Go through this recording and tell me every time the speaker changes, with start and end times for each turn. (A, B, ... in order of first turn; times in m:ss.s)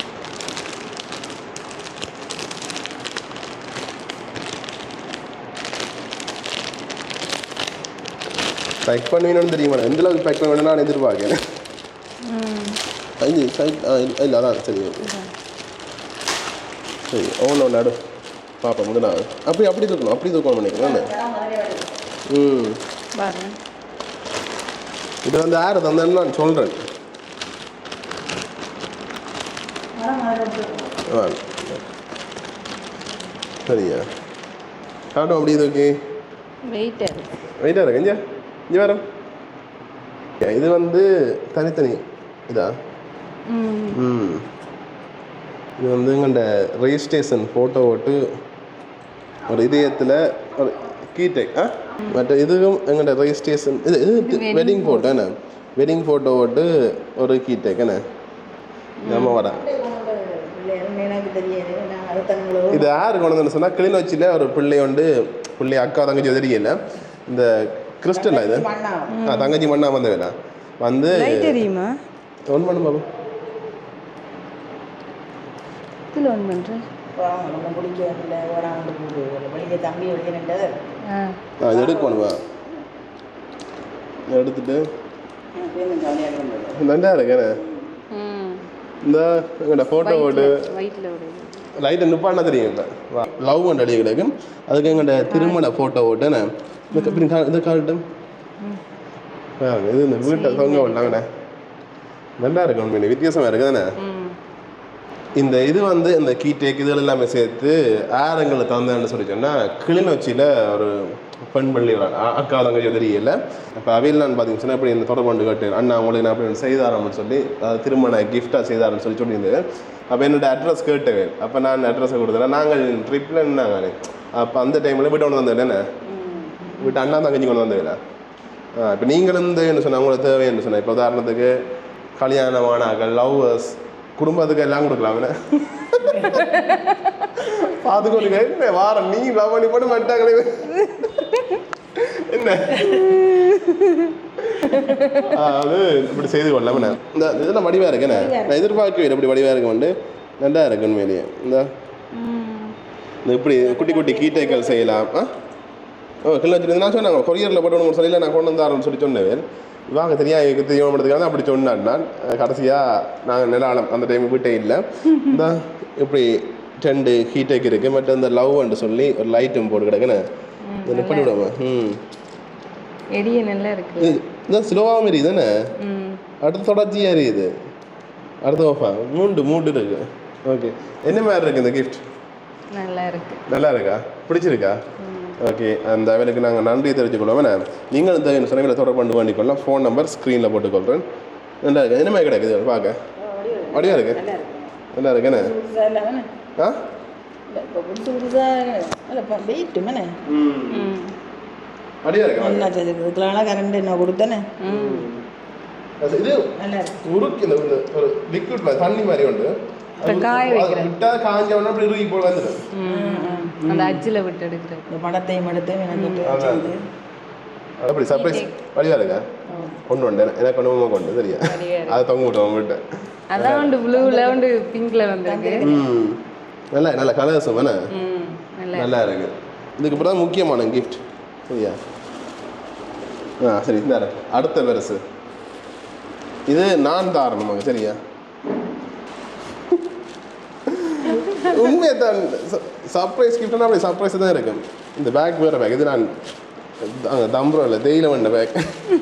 0:08.8-0:11.4 A
0:12.2-0:12.8 B
0:13.2-0:15.1 A
0:15.0-0:15.3 B
0:17.1-0:18.0 A
0:18.6-0:21.1 A
0:20.7-0:22.0 C
0:22.3-0:22.8 A
0:23.1-0:23.6 B
0:25.2-0:26.8 A
0:29.9-0:31.0 C
0:31.1-0:31.8 A
0:33.6-0:34.1 A
0:35.1-0:36.0 A
0:36.6-0:37.3 B
0:37.6-0:39.0 A
0:40.4-0:42.8 A
0:43.5-0:44.0 B
0:43.9-0:44.5 A
0:45.8-0:48.3 A
0:49.5-0:58.0 A
0:54.2-0:55.2 B
0:59.0-0:59.4 B
0:59.0-0:59.6 A
0:59.4-1:02.9 C
1:02.7-1:08.7 A
1:08.1-1:09.2 C
1:09.1-1:09.5 B
1:09.2-1:11.5 A
1:11.1-1:12.0 B
1:12.5-1:13.0 A
1:16.1-1:16.8 B
1:17.1-1:20.8 C
1:21.1-1:21.4 B
1:21.6-1:22.4 A
1:21.7-1:22.2 C
1:24.3-1:24.8 A
1:25.5-1:26.8 C
1:26.8-1:27.6 A
1:28.1-1:28.6 B
1:29.0-1:30.6 A
1:30.0-1:31.6 B
1:31.8-1:38.0 A
1:36.9-1:37.2 B
1:39.6-1:41.3 A
1:40.3-1:41.2 B
1:42.4-1:43.9 A
1:44.0-1:44.4 B
1:45.4-2:05.8 A
2:06.0-2:06.8 C
2:06.8-2:08.0 A
2:08.8-2:11.6 A
2:12.2-2:16.4 A
2:16.3-2:17.0 B
2:17.4-2:20.9 A
2:20.7-2:21.6 B
2:22.0-2:23.3 A
2:22.9-2:24.1 B
2:24.4-2:31.7 A
2:24.6-2:25.3 B
2:28.1-2:28.8 C
2:32.1-2:32.7 B
2:33.2-2:35.3 A
2:33.6-2:35.0 C
2:36.2-2:50.3 A
2:50.7-2:51.4 B
2:50.8-2:52.0 A
2:53.1-2:54.2 B
2:54.0-2:55.7 A
2:55.8-2:56.2 B
2:56.4-2:57.5 A
2:58.4-3:02.0 A
3:02.7-3:03.4 B
3:03.5-3:04.8 A
3:05.0-3:05.4 B
3:05.4-3:11.0 A
3:11.6-3:13.0 A
3:13.2-3:14.7 C
3:13.7-3:14.2 A
3:14.9-3:15.5 A
3:15.3-3:16.3 C
3:17.5-3:20.1 C
3:20.2-3:20.9 A
3:20.7-3:21.1 B
3:22.0-3:22.7 A
3:22.4-3:24.5 C
3:24.6-3:25.1 B
3:24.6-3:25.2 A
3:26.0-3:26.5 A
3:26.6-3:27.0 C
3:27.0-3:32.6 A
3:30.0-3:31.0 B
3:32.7-3:34.9 B
3:32.8-3:34.0 C
3:34.9-3:36.8 C
3:35.9-3:36.2 B
3:36.2-3:36.7 A
3:37.8-3:39.3 A
3:38.1-3:38.5 B
3:39.5-3:39.7 C
3:39.8-3:42.8 A
3:41.4-3:42.0 B
3:43.3-3:45.6 B
3:43.3-3:43.7 A
3:43.9-3:44.6 C
3:45.2-3:45.8 C
3:45.6-3:46.2 A
3:46.7-3:47.8 A
3:47.9-3:49.0 B
3:48.7-3:51.8 A
3:53.4-3:55.0 A
3:56.5-3:58.0 A
4:00.7-4:06.2 A
4:06.8-4:08.8 A